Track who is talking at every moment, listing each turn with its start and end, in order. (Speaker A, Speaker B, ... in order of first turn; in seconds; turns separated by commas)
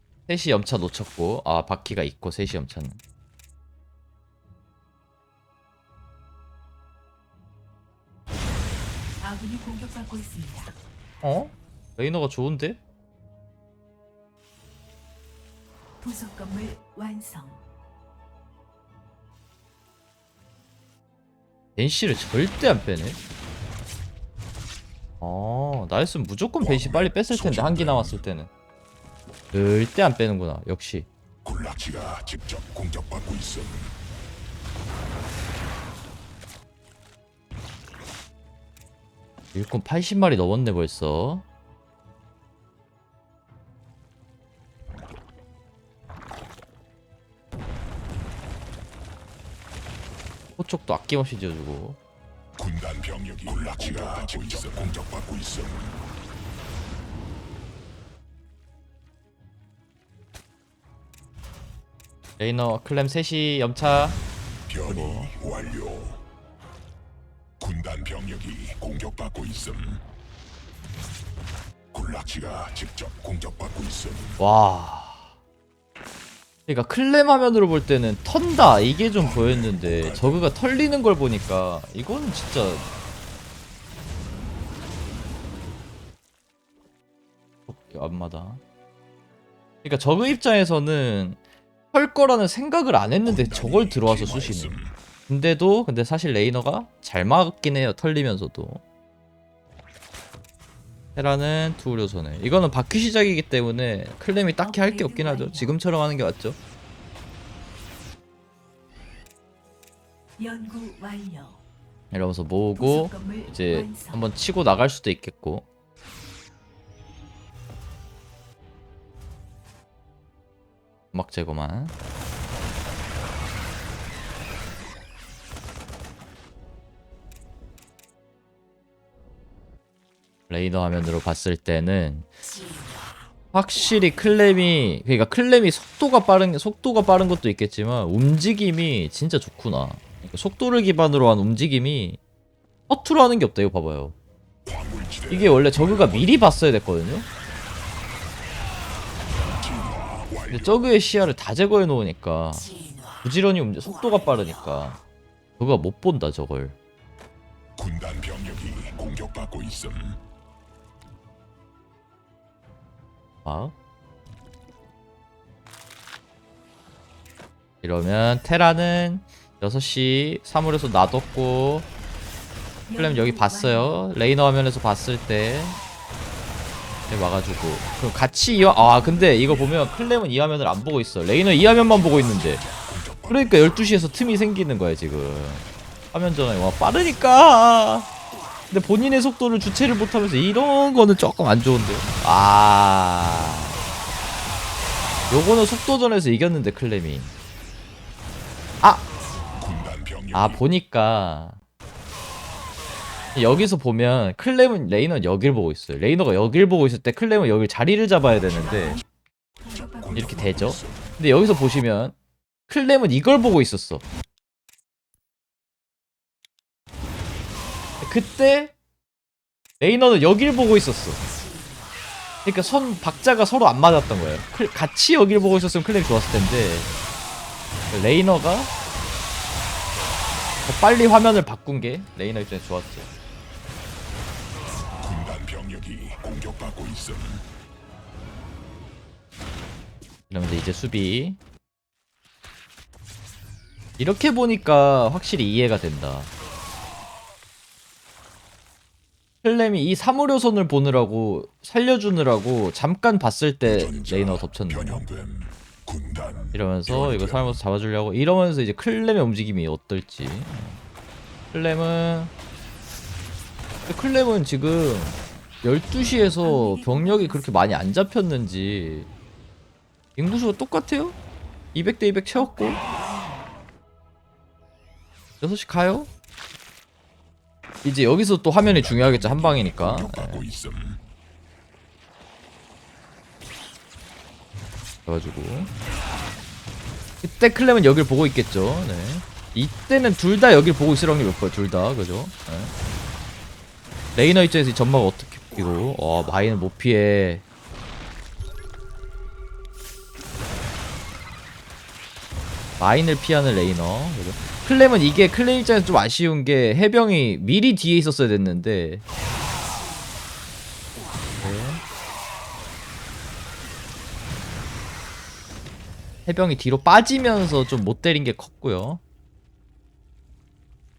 Speaker A: 0.3-3.0, Speaker B: 9.2-10.8, Speaker A: 11.2-12.8, Speaker B: 16.0-17.6, Speaker A: 21.8-23.2, Speaker A: 25.2-28.5, Speaker C: 26.6-28.2, Speaker A: 29.5-31.1, Speaker C: 31.4-33.9, Speaker A: 39.5-41.4, Speaker A: 50.6-52.0, Speaker C: 52.6-56.0, Speaker A: 53.6-54.9, Speaker A: 62.4-64.2, Speaker C: 64.7-66.2, Speaker A: 64.8-65.3, Speaker C: 67.6-70.0, Speaker C: 71.9-74.4, Speaker A: 74.4-75.3, Speaker A: 76.7-82.9, Speaker C: 79.1-80.5, Speaker A: 87.7-88.6, Speaker A: 89.8-91.4, Speaker A: 91.9-94.8, Speaker C: 93.2-95.0, Speaker A: 95.3-98.8, Speaker A: 101.1-106.6, Speaker B: 104.6-105.8, Speaker B: 110.4-111.6, Speaker A: 112.1-115.7, Speaker B: 112.8-114.3, Speaker A: 121.1-121.9, Speaker A: 130.5-132.3, Speaker A: 133.5-142.2, Speaker A: 142.9-144.1, Speaker C: 144.6-146.4, Speaker A: 145.3-147.3, Speaker C: 149.6-150.8, Speaker A: 150.5-152.7, Speaker A: 153.2-155.0, Speaker A: 155.6-156.8, Speaker C: 157.8-160.2, Speaker A: 163.4-163.7, Speaker A: 167.8-171.9, Speaker B: 172.9-173.9, Speaker A: 173.0-175.8, Speaker A: 177.1-182.7, Speaker B: 178.7-179.7, Speaker C: 181.7-184.1, Speaker A: 183.3-188.1, Speaker A: 188.7-193.8, Speaker A: 195.3-197.3, Speaker C: 199.5-200.6, Speaker A: 200.3-201.6, Speaker A: 203.3-209.0, Speaker B: 208.5-209.0, Speaker B: 209.6-210.7, Speaker C: 209.7-211.2, Speaker A: 210.1-212.1, Speaker A: 212.7-214.0, Speaker A: 218.0-218.7, Speaker A: 219.8-221.2, Speaker A: 222.4-226.9, Speaker A: 227.9-228.7, Speaker A: 230.7-233.1, Speaker C: 235.0-237.5, Speaker A: 240.3-241.4, Speaker A: 244.0-246.3, Speaker A: 249.4-255.1, Speaker C: 253.6-257.6, Speaker A: 256.5-260.8, Speaker A: 261.5-262.3, Speaker A: 263.9-269.1, Speaker B: 266.4-267.9, Speaker A: 270.1-271.2, Speaker A: 271.7-272.8, Speaker B: 272.3-273.5, Speaker A: 275.4-276.1, Speaker A: 277.8-280.4, Speaker C: 278.6-281.0, Speaker A: 285.1-285.7, Speaker A: 287.2-292.7, Speaker A: 294.1-297.4, Speaker A: 302.8-309.0, Speaker A: 311.4-311.8, Speaker A: 316.2-319.0